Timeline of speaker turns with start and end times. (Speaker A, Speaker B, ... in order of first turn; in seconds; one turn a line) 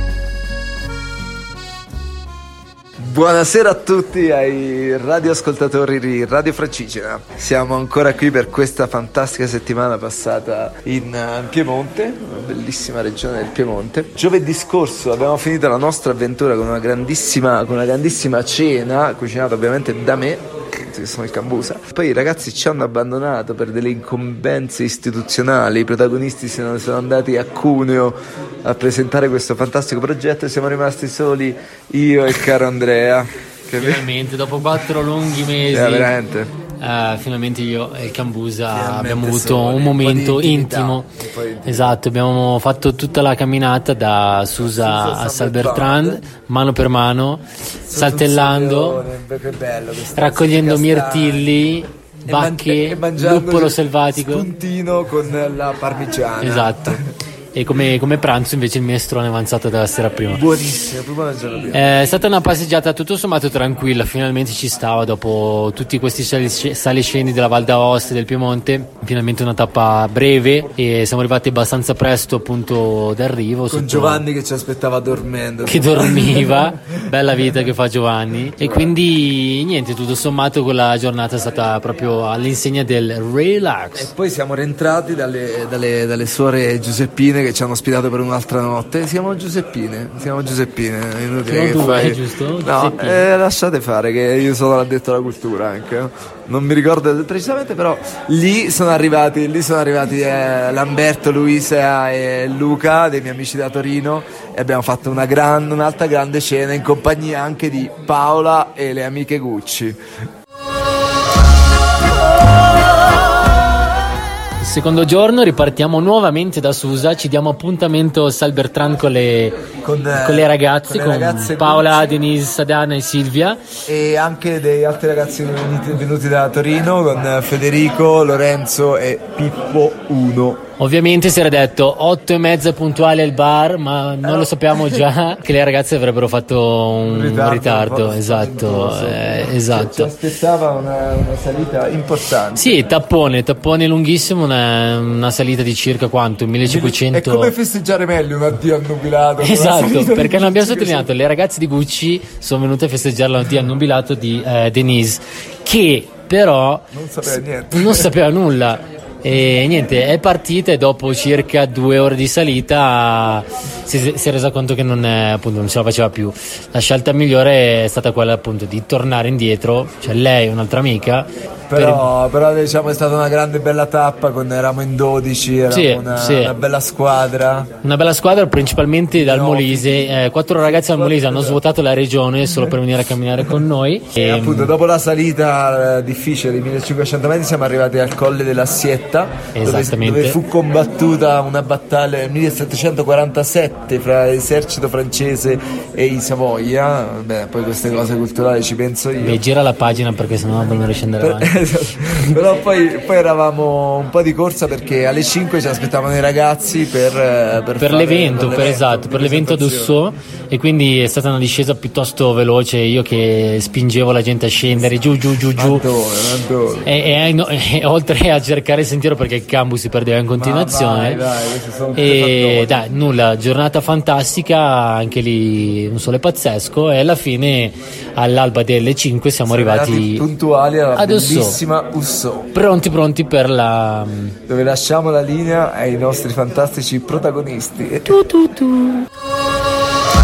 Speaker A: 3.0-34.1
Speaker B: 33.8-36.1
Speaker A: 35.7-36.5
Speaker B: 36.8-41.1
Speaker A: 38.7-42.0
Speaker B: 41.6-49.0
Speaker A: 44.6-46.2
Speaker A: 47.9-51.6
Speaker B: 50.1-54.5
Speaker A: 52.2-57.0
Speaker B: 56.4-57.0
Speaker B: 57.5-60.4
Speaker A: 60.3-62.0
Speaker B: 61.7-74.2
Speaker A: 73.7-76.7
Speaker B: 75.7-84.1
Speaker A: 78.6-78.9
Speaker A: 83.9-110.0
Speaker B: 91.4-93.3
Speaker B: 114.6-119.6
Speaker A: 119.8-122.1
Speaker B: 120.1-123.6
Speaker A: 123.8-130.6
Speaker B: 130.8-140.1
Speaker A: 134.2-135.0
Speaker A: 137.0-142.8
Speaker B: 142.5-147.5
Speaker A: 146.6-151.1
Speaker B: 149.4-172.1
Speaker A: 156.9-158.1
Speaker A: 171.7-177.7
Speaker B: 175.7-176.5
Speaker B: 177.8-184.7
Speaker A: 179.1-181.6
Speaker A: 184.2-199.4
Speaker B: 189.5-190.4
Speaker B: 199.2-201.5
Speaker A: 201.2-210.0
Speaker B: 207.8-215.8
Speaker A: 215.5-216.9
Speaker B: 216.8-221.2
Speaker A: 220.4-222.8
Speaker B: 221.9-230.3
Speaker A: 229.4-232.5
Speaker B: 230.9-231.6
Speaker B: 232.5-234.3
Speaker A: 234.5-238.2